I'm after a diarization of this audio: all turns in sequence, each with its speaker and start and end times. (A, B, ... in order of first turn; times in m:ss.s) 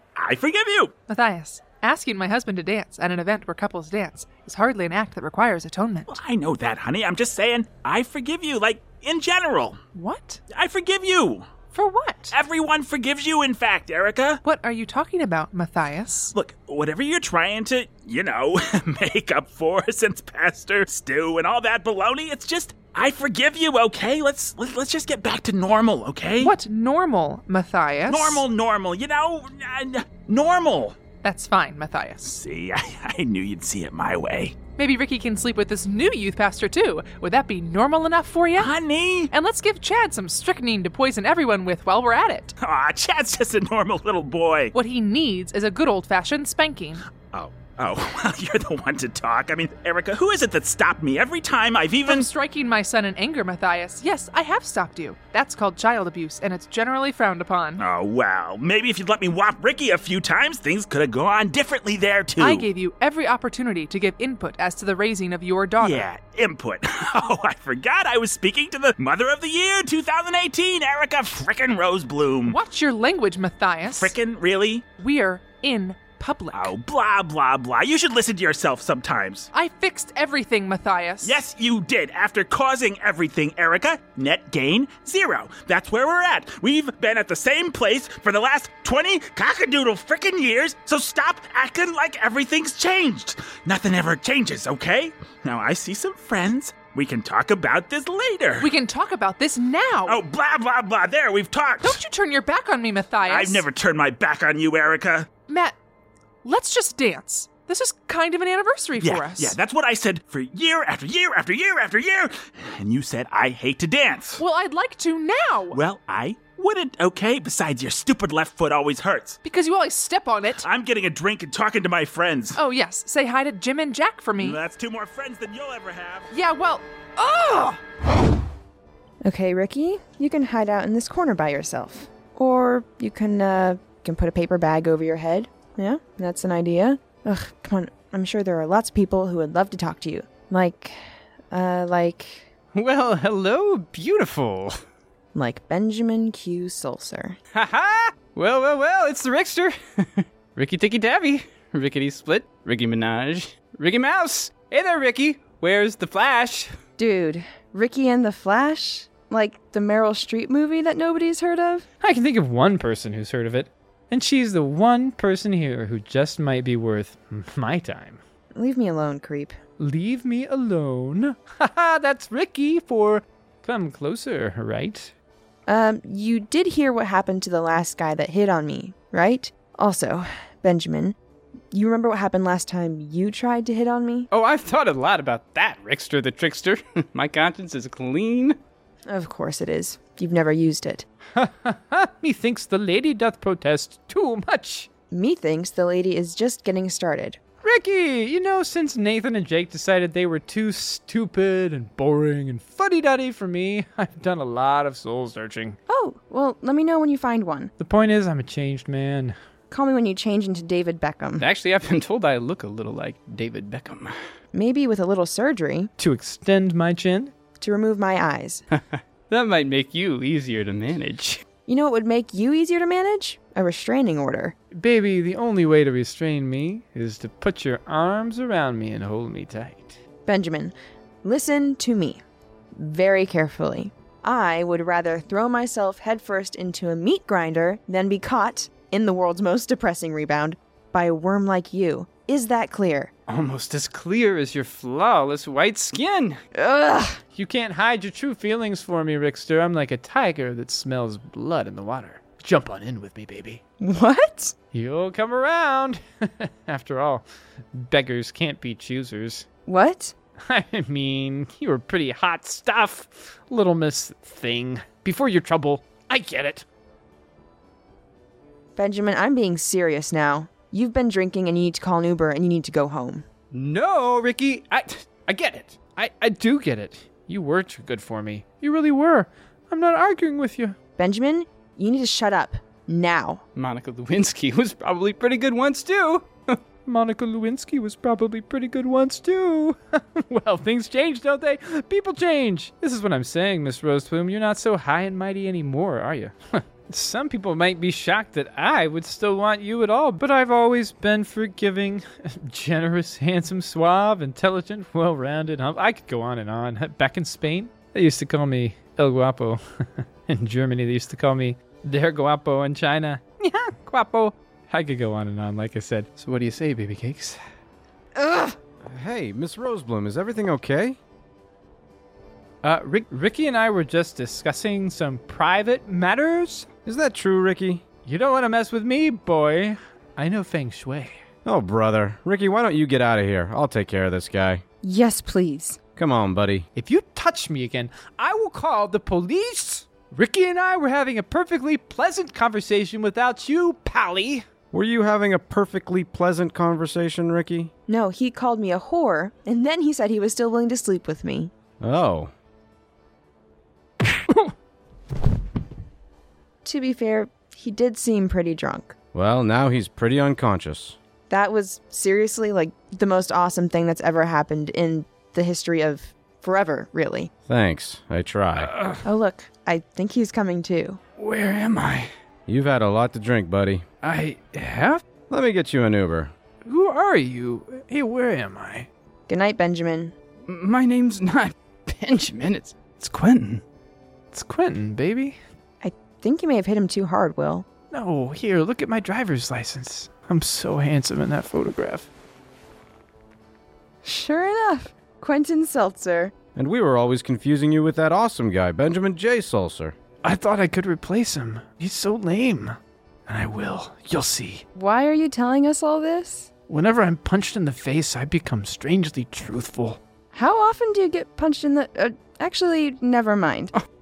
0:00.2-0:00.9 A
0:01.1-0:06.2 B
0:06.1-0:09.8 A
0:09.9-0:10.4 B
0:10.5-0:11.5 A
0:11.7-0:12.3 B
0:12.3-0:14.4 A
0:14.4-0:16.3 B
0:16.3-0:26.5 A
0:26.4-0:28.4 B
0:28.1-0:31.0 A
0:31.2-0:32.3 B
0:32.2-0:34.6 A
0:34.8-0:38.7 B
0:38.6-0:39.3 A
0:39.3-0:42.6 B
0:42.6-0:44.7 A
0:44.7-0:47.0 B
0:47.3-0:52.3 A
0:52.0-0:57.8 B
0:57.8-1:02.7 A
1:02.4-1:06.0 B
1:05.8-1:12.6 A
1:12.4-1:14.1 B
1:13.9-1:14.8 A
1:15.0-1:16.7 B
1:16.5-1:19.5 A
1:19.5-1:21.4 B
1:21.2-1:38.7 A
1:38.6-1:40.2 B
1:40.0-1:42.0 A
1:41.8-1:43.6 B
1:43.2-1:45.3 A
1:45.5-1:45.8 B
1:46.4-1:49.5 B
1:49.0-1:54.4 A
1:54.4-1:55.8 B
1:55.7-1:59.4 A
1:59.4-2:00.6 B
2:00.6-2:02.6 A
2:02.5-2:04.6 B
2:04.4-2:06.3 A
2:06.3-2:07.8 B
2:09.2-2:22.5 C
2:22.7-2:24.8 D
2:25.3-2:27.4 C
2:27.5-2:36.7 D
2:37.0-2:41.9 C
2:42.0-2:48.2 E
2:48.5-2:49.6 C
2:49.8-2:55.1 E
2:55.7-3:01.2 C
3:01.7-3:04.3 C
3:04.3-3:08.6 D
3:09.1-3:11.0 C
3:11.3-3:14.9 E
3:15.1-3:17.4 C
3:17.6-3:25.8 E
3:25.9-3:27.7 C
3:27.8-3:29.4 E
3:29.7-3:31.4 C
3:31.4-3:34.2 D
3:34.5-3:35.9 C
3:36.0-3:37.3 E
3:37.6-3:38.6 C
3:38.7-3:41.4 D
3:41.6-3:44.5 C
3:44.7-3:50.0 E
3:50.2-3:52.2 C
3:52.8-4:03.1 C
4:03.3-4:06.4 D
4:06.5-4:07.2 C
4:07.3-4:13.6 E
4:13.8-4:14.5 C
4:14.7-4:19.5 E
4:19.6-4:20.1 C
4:20.4-4:26.6 E
4:28.8-4:33.2 C
4:33.5-4:35.9 D
4:35.8-4:40.8 E
4:41.0-4:43.4 C
4:43.6-4:46.6 D
4:46.8-5:13.2 E
5:13.4-5:14.3 D
5:14.7-5:17.4 E
5:18.2-5:21.0 F
5:22.6-5:26.7 E
5:26.8-5:27.8 F
5:28.0-5:31.2 E
5:31.4-5:34.6 F
5:34.8-5:35.8 C
5:36.0-5:36.7 F
5:36.7-5:44.4 E
5:44.7-5:47.7 F
5:47.9-5:51.5 C
5:51.8-5:52.3 F
5:56.6-5:58.9 C
5:59.1-6:01.0 F
6:01.3-6:07.3 C
6:07.5-6:08.8 F
6:09.0-6:11.0 C
6:11.2-6:12.1 D
6:12.5-6:13.8 F
6:14.0-6:14.5 E
6:14.5-6:15.0 D
6:15.3-6:16.3 F
6:16.6-6:18.9 E
6:19.3-6:20.1 C
6:20.4-6:23.0 D
6:22.9-6:23.6 E
6:24.3-6:25.4 E
6:25.8-6:27.6 C
6:27.9-6:32.1 E
6:34.0-6:36.3 C
6:36.5-6:39.9 F
6:40.2-6:44.6 E
6:44.7-6:46.5 C
6:46.7-6:50.0 E
6:50.3-6:53.7 C